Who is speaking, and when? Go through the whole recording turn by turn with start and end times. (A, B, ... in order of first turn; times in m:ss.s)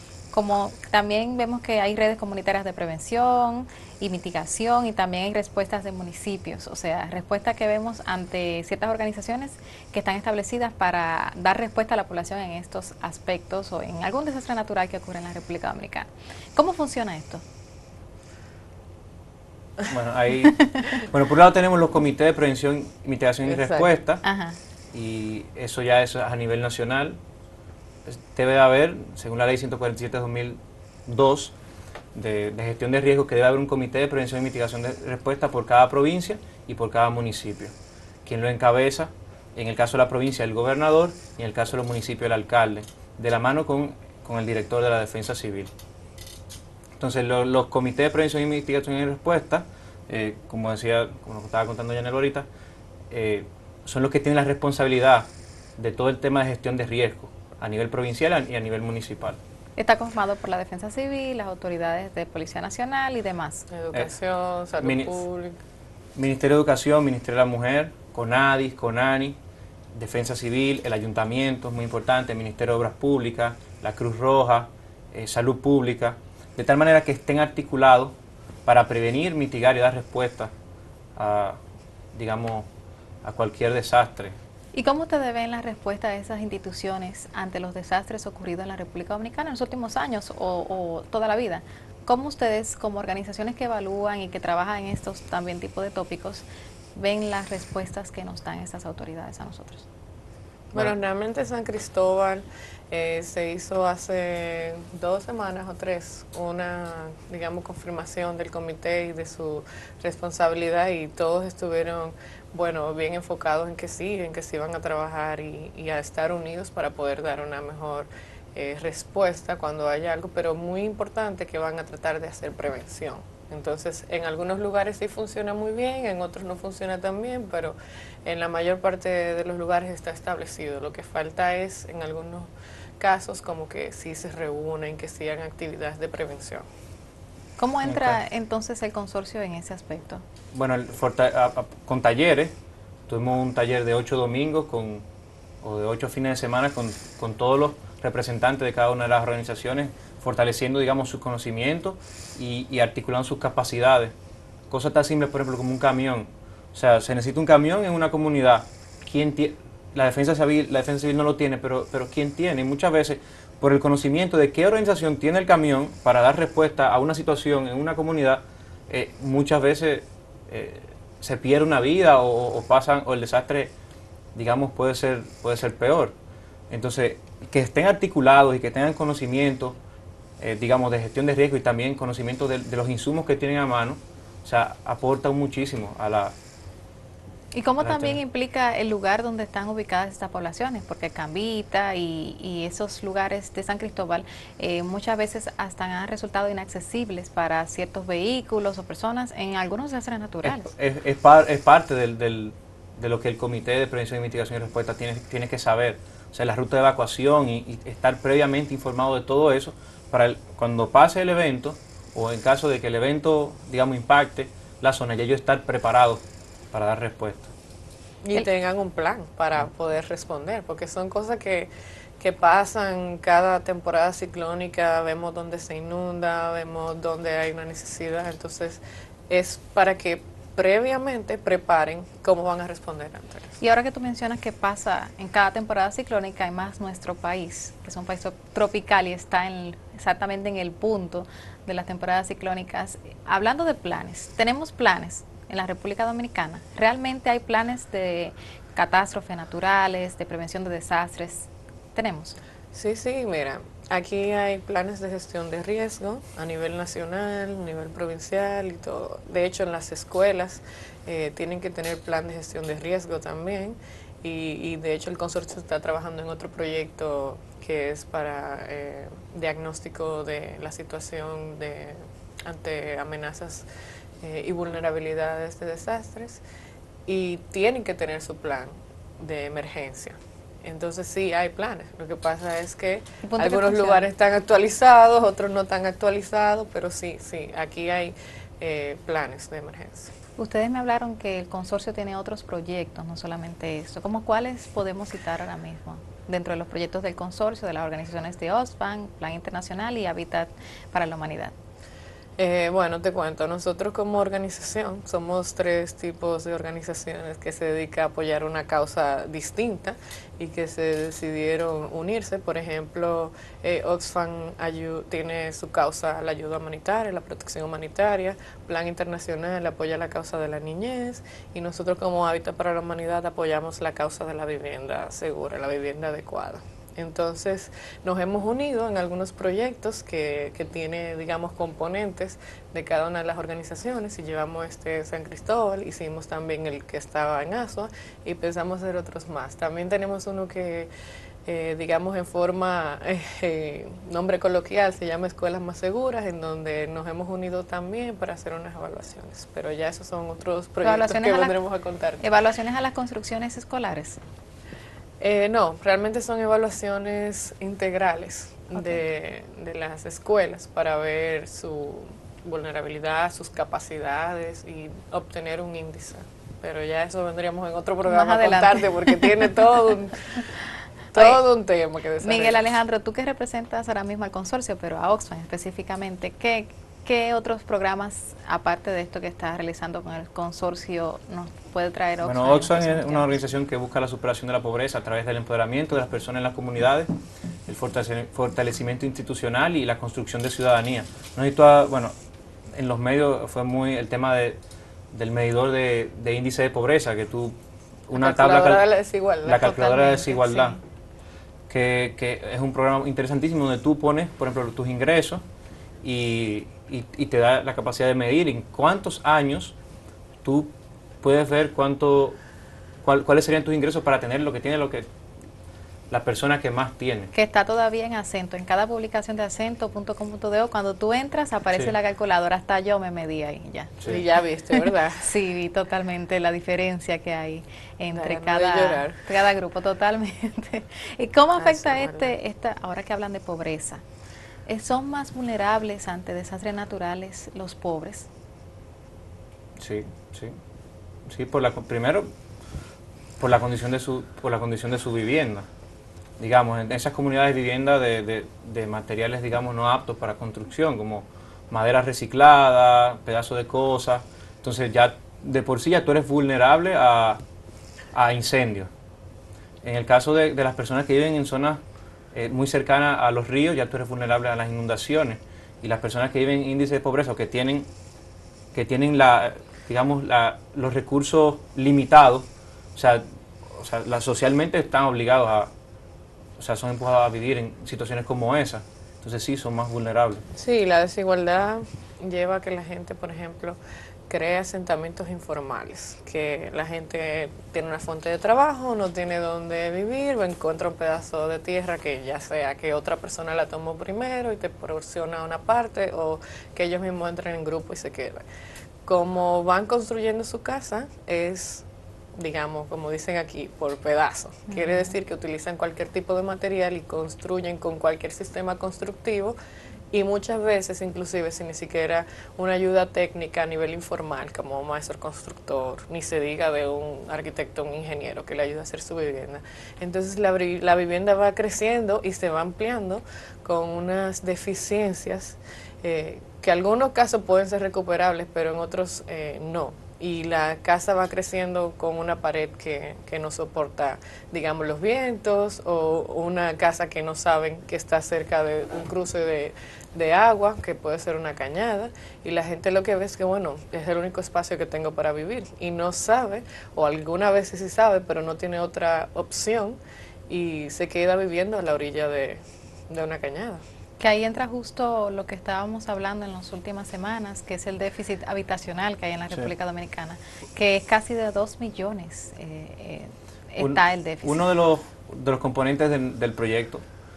0:00.3-0:17.4 A
0:19.9-0:24.2 B
0:20.6-0:21.0 A
0:23.4-0:23.9 C
0:24.2-0:24.6 A
0:24.9-0:27.2 B
0:28.0-0:31.5 B
0:32.1-0:37.7 B
0:38.2-0:45.7 B
0:47.0-0:52.5 B
0:53.1-0:59.4 B
0:59.8-1:03.6 A
1:03.7-1:05.6 C
1:04.8-1:05.2 B
1:06.2-1:09.4 B
1:09.9-1:18.1 B
1:18.6-1:20.5 B
1:21.2-1:21.6 B
1:22.1-1:22.7 B
1:23.2-1:24.3 B
1:24.7-1:39.8 A
1:40.7-2:16.6 C
2:17.6-2:20.2 A
2:17.8-2:18.2 B
2:20.5-2:22.5 B
2:23.1-2:25.0 B
2:25.6-2:34.1 B
2:34.7-2:53.7 B
2:54.3-2:56.1 B
2:56.7-2:59.8 B
3:00.4-3:06.3 B
3:07.5-3:20.7 A
3:07.8-3:08.2 B
3:20.4-3:37.5 B
3:38.2-3:53.6 C
3:53.6-4:12.4 A
4:12.7-4:33.6 C
4:34.2-4:36.4 C
4:37.1-4:50.1 C
4:43.2-4:44.1 A
4:50.4-5:01.5 A
5:02.4-5:40.9 C
5:41.5-5:52.2 C
5:50.8-5:51.6 A
5:52.2-5:54.2 A
5:55.2-6:10.2 C
6:08.0-6:09.5 A
6:11.1-6:12.6 C
6:12.2-6:23.3 A
6:22.2-6:27.1 B
6:27.7-6:32.1 B
6:32.7-6:34.6 B
6:35.1-6:37.6 B
6:38.1-6:38.8 B
6:38.1-6:40.4 C
6:39.4-6:40.8 B
6:39.9-6:40.7 A
6:41.7-6:45.4 B
6:46.0-6:49.7 B
6:50.4-6:50.7 B
6:51.2-6:52.4 B
6:53.0-6:55.0 B
6:56.1-6:57.3 B
6:57.3-7:04.2 A
7:04.0-7:05.3 C
7:04.7-7:14.0 A
7:08.1-7:09.2 C
7:11.6-7:12.3 C
7:14.7-7:18.3 A
7:19.8-7:20.5 B
7:21.2-7:22.3 B
7:23.4-7:25.6 B
7:26.4-7:37.4 B
7:38.1-7:38.9 B
7:39.8-7:41.8 B
7:42.3-7:47.9 B
7:48.7-7:55.7 B
7:56.6-8:00.4 B
8:00.6-8:03.8 C
8:04.3-8:18.4 C
8:19.0-8:21.8 C
8:22.4-8:29.5 C
8:24.7-8:25.1 A
8:30.1-9:10.0 C
9:10.5-9:13.8 C
9:14.2-9:24.6 A
9:23.8-9:27.0 B